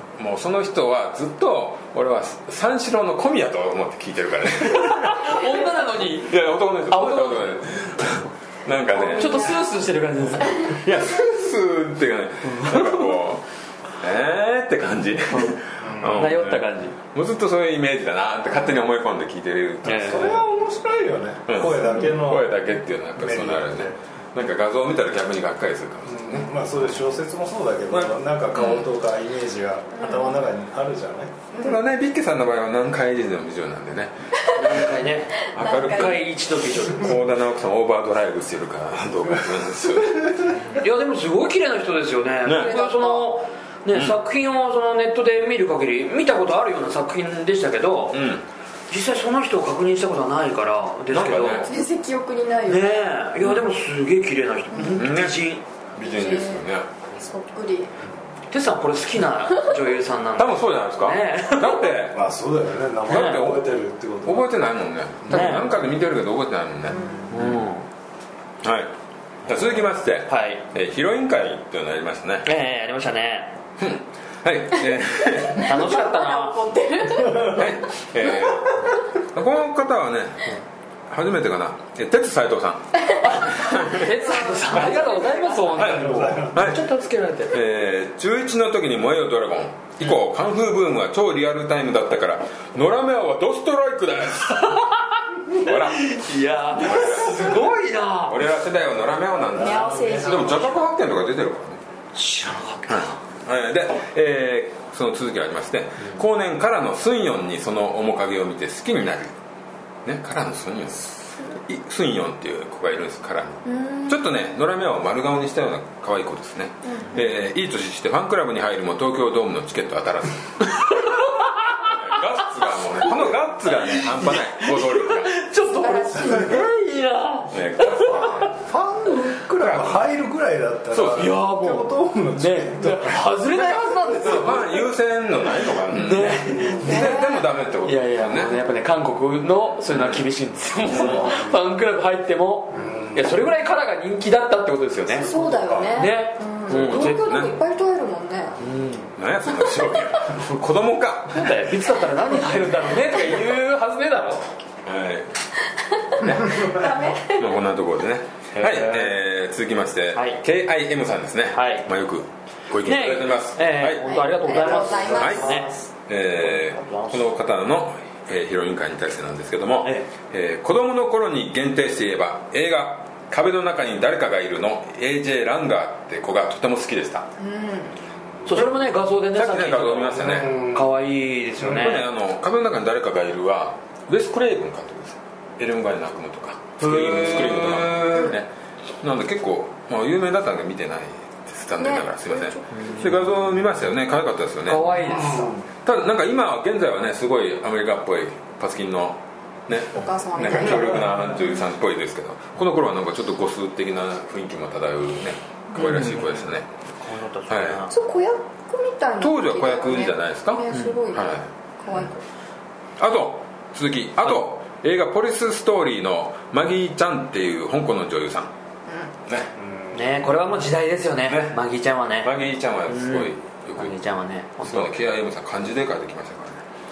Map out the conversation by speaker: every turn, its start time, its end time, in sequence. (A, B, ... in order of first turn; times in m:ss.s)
0:00.2-0:05.5 A
0:04.7-0:07.6 B
0:06.2-0:09.6 A
0:08.9-0:09.8 C
0:09.0-0:10.7 B
0:10.4-0:10.9 C
0:10.5-0:13.4 A
0:12.4-0:13.1 B
0:14.0-0:20.4 A
0:15.3-0:15.6 B
0:15.8-0:16.3 D
0:16.1-0:17.0 B
0:19.8-0:20.4 B
0:19.9-0:22.5 D
0:21.5-0:26.6 A
0:23.2-0:23.9 D
0:26.0-0:31.3 D
0:27.9-0:28.9 A
0:30.0-0:30.4 C
0:31.5-0:31.8 C
0:31.6-0:34.9 A
0:34.5-0:34.8 C
0:34.5-0:37.2 B
0:35.5-0:40.4 A
0:35.5-0:36.2 C
0:40.6-0:48.3 B
0:42.4-0:42.7 A
0:42.4-0:43.3 C
0:48.1-0:48.4 A
0:48.9-0:51.7 B
0:51.1-0:51.7 A
0:51.6-0:53.0 C
0:52.7-0:55.6 B
0:54.7-0:55.0 C
0:54.9-0:55.4 A
0:56.0-0:56.9 A
0:56.0-0:57.9 C
0:58.5-1:01.9 B
1:00.4-1:02.2 A
1:02.1-1:04.5 D
1:03.0-1:03.7 A
1:03.1-1:03.4 B
1:04.2-1:07.0 A
1:05.3-1:05.7 B
1:06.9-1:07.4 C
1:07.3-1:07.8 B
1:08.6-1:08.9 A
1:09.4-1:12.5 A
1:10.3-1:10.6 B
1:12.4-1:13.5 B
1:13.8-1:15.8 A
1:15.4-1:18.6 C
1:15.6-1:16.6 B
1:17.5-1:20.5 A
1:21.1-1:24.1 A
1:23.2-1:27.6 B
1:23.8-1:25.8 C
1:25.7-1:26.8 A
1:25.8-1:26.8 D
1:27.5-1:34.8 A
1:34.5-1:38.4 B
1:35.5-1:41.8 A
1:39.4-1:40.7 D
1:39.5-1:40.8 C
1:42.1-1:43.2 B
1:42.9-1:49.3 A
1:50.0-2:01.1 A
1:53.6-1:54.2 C
1:56.8-1:57.2 C
2:00.6-2:02.2 B
2:01.8-2:05.3 A
2:02.8-2:03.1 B
2:03.8-2:08.4 B
2:05.6-2:06.7 C
2:07.5-2:08.6 A
2:08.1-2:13.3 D
2:09.6-2:10.0 A
2:10.9-2:11.3 A
2:11.1-2:14.8 B
2:13.5-2:18.6 A
2:15.9-2:17.0 B
2:16.5-2:16.9 D
2:16.8-2:17.5 C
2:17.8-2:25.3 B
2:19.9-2:20.2 A
2:21.0-2:21.2 A
2:21.0-2:21.4 D
2:22.7-2:23.3 D
2:25.2-2:28.6 C
2:25.2-2:26.0 D
2:25.9-2:27.2 B
2:26.7-2:27.6 A
2:28.6-2:29.1 B
2:29.2-2:31.5 A
2:31.3-2:34.4 B
2:34.8-2:35.4 A
2:36.0-2:37.6 C
2:36.2-2:36.7 A
2:37.3-2:44.0 A
2:38.5-2:39.1 B
2:40.1-2:40.4 B
2:41.5-2:41.9 B
2:42.8-2:45.7 B
2:44.0-2:45.7 C
2:44.5-2:45.8 D
2:45.2-2:45.4 A
2:46.1-2:57.3 A
2:46.4-2:47.3 B
2:57.4-2:58.0 C
2:58.5-3:02.1 B
2:59.3-3:00.6 A
3:00.2-3:00.9 D
3:01.6-3:08.5 A
3:06.8-3:08.1 B
3:08.1-3:08.3 C
3:09.0-3:26.7 A
3:11.8-3:12.9 C
3:12.7-3:13.0 B
3:14.6-3:15.6 B
3:15.0-3:15.6 D
3:19.9-3:21.4 C
3:25.8-3:26.4 B
3:27.0-3:27.9 B
3:27.5-3:27.8 A
3:27.9-3:32.2 C
3:29.2-3:32.1 A
3:30.7-3:31.0 B
3:33.0-3:38.5 A
3:38.9-3:39.1 C
3:39.3-3:39.5 A
3:39.5-3:40.1 D
3:39.9-3:42.3 B
3:41.2-3:41.6 A
3:42.2-3:44.0 A
3:42.9-3:44.9 B
3:44.6-3:46.6 A